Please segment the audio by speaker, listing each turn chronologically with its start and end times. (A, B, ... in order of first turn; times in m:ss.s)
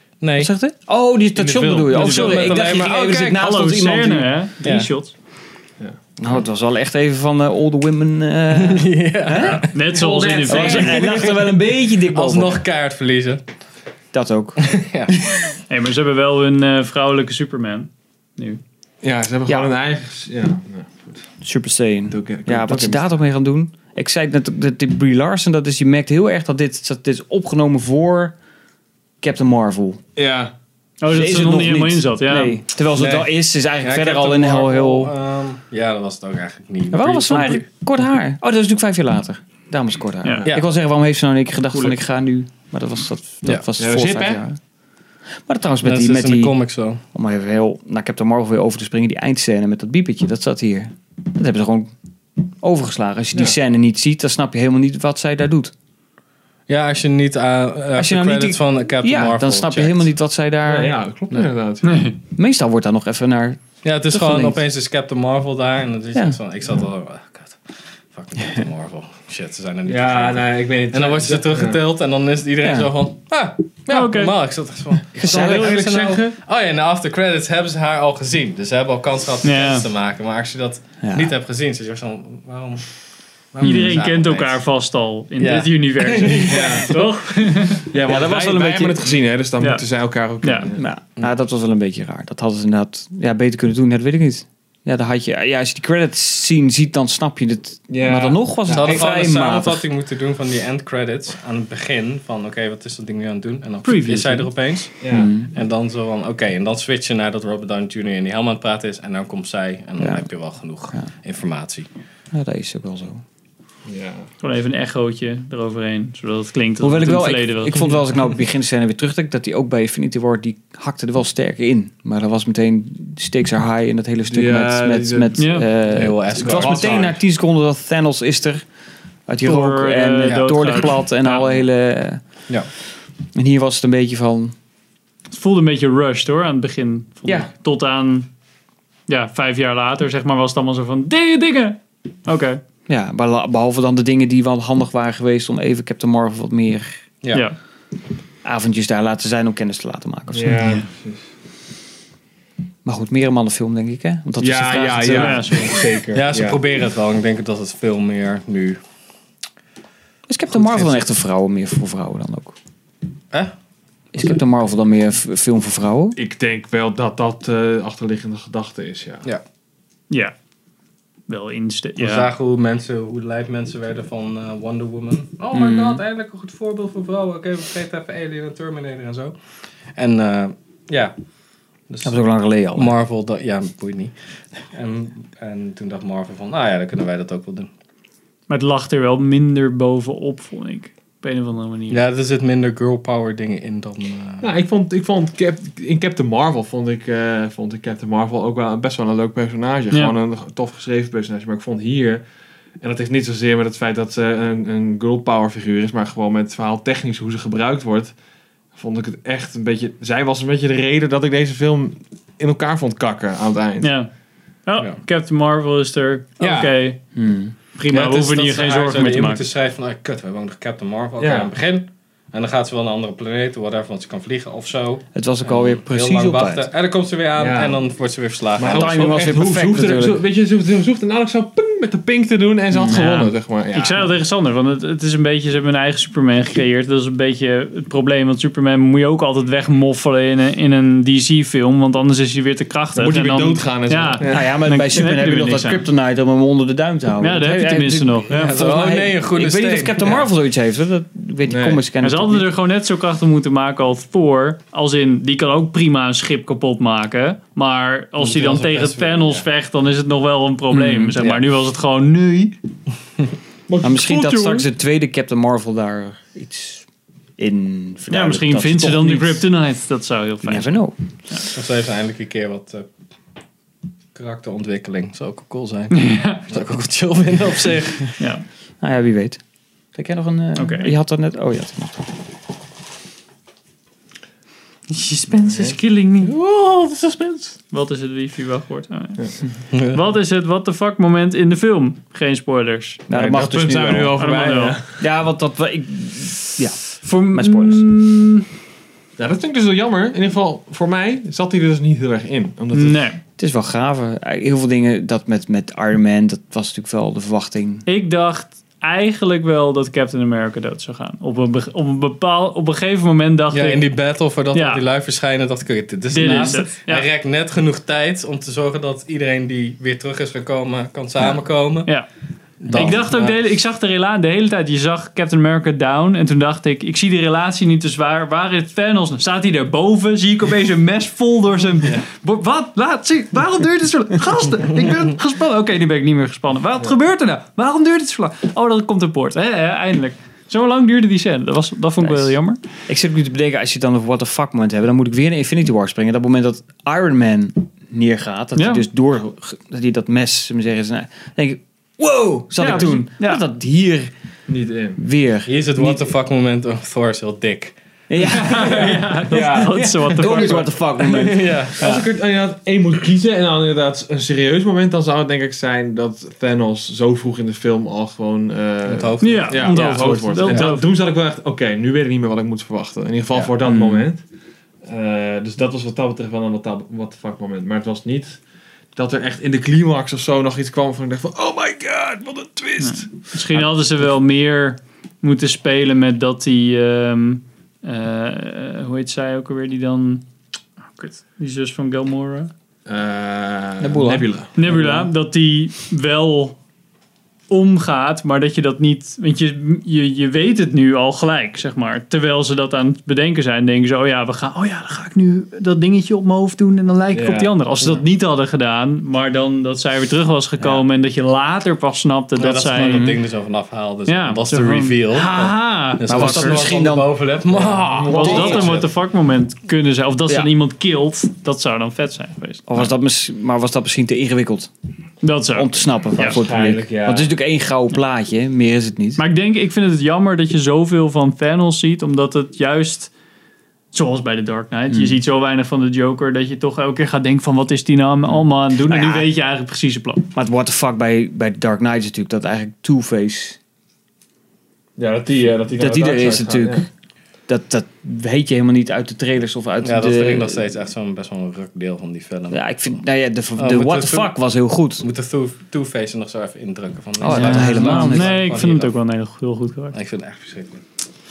0:00.2-0:00.5 A
0:00.4-0:04.3 B
0:01.4-0:02.4 C
0:01.9-0:03.4 A
0:02.1-0:02.4 D
0:03.3-0:05.1 D
0:04.6-0:04.9 A
0:06.2-0:09.7 B
0:08.5-0:10.0 A
0:09.7-0:11.2 D
0:09.9-0:11.5 C
0:10.5-0:12.6 B
0:10.7-0:13.4 A
0:14.1-0:14.7 B
0:14.6-0:15.4 A
0:15.7-0:18.6 D
0:19.0-0:21.2 C
0:21.4-0:28.4 B
0:22.1-0:23.2 C
0:29.2-0:30.0 B
0:30.2-0:30.5 C
0:31.0-0:32.6 D
0:31.1-0:35.1 B
0:33.0-0:37.6 A
0:36.9-0:44.6 B
0:43.8-0:44.4 C
0:45.4-0:46.6 B
0:45.8-0:47.0 A
0:47.1-0:51.9 B
0:52.5-0:55.7 B
0:56.7-1:00.1 A
0:58.0-1:01.0 B
1:00.7-1:02.1 C
1:01.8-1:02.2 D
1:02.4-1:04.6 B
1:03.8-1:22.9 A
1:09.9-1:11.8 C
1:12.6-1:12.9 B
1:13.9-1:14.3 D
1:15.2-1:15.8 B
1:15.2-1:16.4 C
1:19.4-1:19.8 D
1:21.0-1:21.3 B
1:23.5-1:24.7 A
1:23.6-1:27.9 D
1:23.6-1:23.9 B
1:25.4-1:27.2 A
1:26.5-1:26.9 C
1:27.9-1:30.8 C
1:28.0-1:29.0 B
1:30.4-1:30.7 D
1:30.8-1:39.8 B
1:37.9-1:39.0 C
1:38.7-1:51.9 A
1:43.8-1:44.5 D
1:45.0-1:45.3 C
1:45.1-1:45.5 B
1:50.0-1:50.3 B
1:52.3-1:53.2 B
1:53.9-1:54.3 C
1:54.4-1:58.0 D
1:56.8-2:08.6 B
2:04.3-2:07.2 C
2:05.4-2:05.7 D
2:05.9-2:07.0 A
2:09.3-2:12.2 B
2:09.4-2:11.6 D
2:10.2-2:10.5 A
2:13.3-2:14.5 B
2:15.3-2:18.3 D
2:17.2-2:17.5 B
2:19.1-2:22.6 D
2:22.9-2:27.0 B
2:28.4-2:30.6 B
2:30.3-2:31.3 C
2:30.6-2:30.9 D
2:32.8-2:35.5 B
2:34.4-2:36.6 C
2:35.2-2:35.8 D
2:36.1-2:38.8 A
2:40.3-2:42.6 B
2:40.5-2:41.0 A
2:44.1-2:46.2 B
2:46.2-2:49.2 C
2:51.3-2:52.3 D
2:52.0-2:59.4 A
2:55.5-2:56.0 B
3:00.0-3:01.1 A
3:02.0-3:03.0 B
3:02.8-3:07.7 A
3:08.5-3:12.0 D
3:11.9-3:14.5 A
3:14.4-3:22.2 C
3:22.8-3:28.1 C
3:28.8-3:33.9 C
3:33.8-3:34.1 D
3:34.7-3:37.0 D
3:36.4-3:36.7 C
3:37.1-3:37.5 B
3:37.8-3:39.4 D
3:37.9-3:49.2 A
3:41.2-3:41.5 C
3:45.1-3:46.7 B
3:47.4-3:47.8 C
3:48.6-3:54.1 C
3:48.6-3:50.2 B
3:52.7-3:53.3 B
3:52.9-4:05.9 D
4:03.0-4:04.5 C
4:04.3-4:12.5 B
4:07.2-4:08.7 D
4:08.3-4:10.2 A
4:11.5-4:11.8 C
4:12.0-4:22.6 D
4:18.2-4:19.5 A
4:20.7-4:21.2 B
4:23.7-4:24.7 C
4:23.8-4:26.8 B
4:27.4-4:29.4 B
4:28.1-4:31.5 D
4:30.4-4:31.0 B
4:31.5-4:32.9 A
4:34.2-4:38.2 A
4:35.9-4:36.5 D
4:38.2-4:38.4 D
4:38.8-4:39.4 B
4:39.9-4:42.1 B
4:40.6-4:40.9 D
4:45.2-4:46.3 A
4:45.5-4:47.6 C
4:47.7-4:53.0 D
4:49.7-4:50.0 A
4:53.1-4:54.2 B
4:53.1-4:55.0 C
4:54.2-4:54.8 D
4:55.0-4:57.9 B
4:57.0-4:58.5 D
4:59.2-5:03.0 C
5:02.7-5:03.2 D
5:03.4-5:07.8 B
5:07.9-5:13.8 D
5:13.5-5:21.9 A
5:14.5-5:14.8 D
5:16.1-5:17.1 D
5:22.6-5:23.4 A
5:22.7-5:22.9 B
5:22.7-5:42.6 D
5:42.0-5:54.1 B
5:48.6-5:48.9 D
5:52.6-5:53.4 D
5:54.5-5:55.0 C
5:55.0-5:56.1 B
5:55.5-5:57.8 A
5:58.1-6:01.7 B
5:58.2-6:00.7 D
5:58.5-6:00.6 C
6:01.1-6:01.9 A
6:01.8-6:14.2 C
6:08.8-6:10.7 A
6:09.2-6:10.9 D
6:13.6-6:14.0 B
6:14.8-6:18.4 C
6:19.0-6:23.1 C
6:22.8-6:30.2 D
6:31.0-6:32.5 D
6:32.9-6:34.6 C
6:33.8-6:35.1 B
6:34.6-6:36.6 D
6:37.5-6:53.1 D
6:47.1-6:47.6 C
6:50.6-6:50.8 B
6:52.4-6:58.9 A
6:52.8-6:53.1 B
6:54.1-6:56.7 D
6:56.1-6:57.1 B
6:57.5-6:58.8 C
6:58.1-7:02.6 D
6:58.1-6:58.7 B
7:02.7-7:04.7 B
7:05.2-7:06.4 D
7:05.5-7:09.2 B
7:06.2-7:07.3 C
7:09.2-7:13.1 D
7:13.9-7:20.3 D
7:14.9-7:15.2 B
7:18.8-7:19.3 B
7:20.4-7:23.6 B
7:25.0-7:26.9 C
7:25.8-7:26.9 B
7:27.5-7:30.6 B
7:29.8-7:33.0 A
7:32.5-7:35.0 B
7:33.6-7:34.3 A
7:35.0-7:38.9 A
7:37.2-7:38.4 B
7:37.2-7:40.0 D
7:39.9-7:40.8 A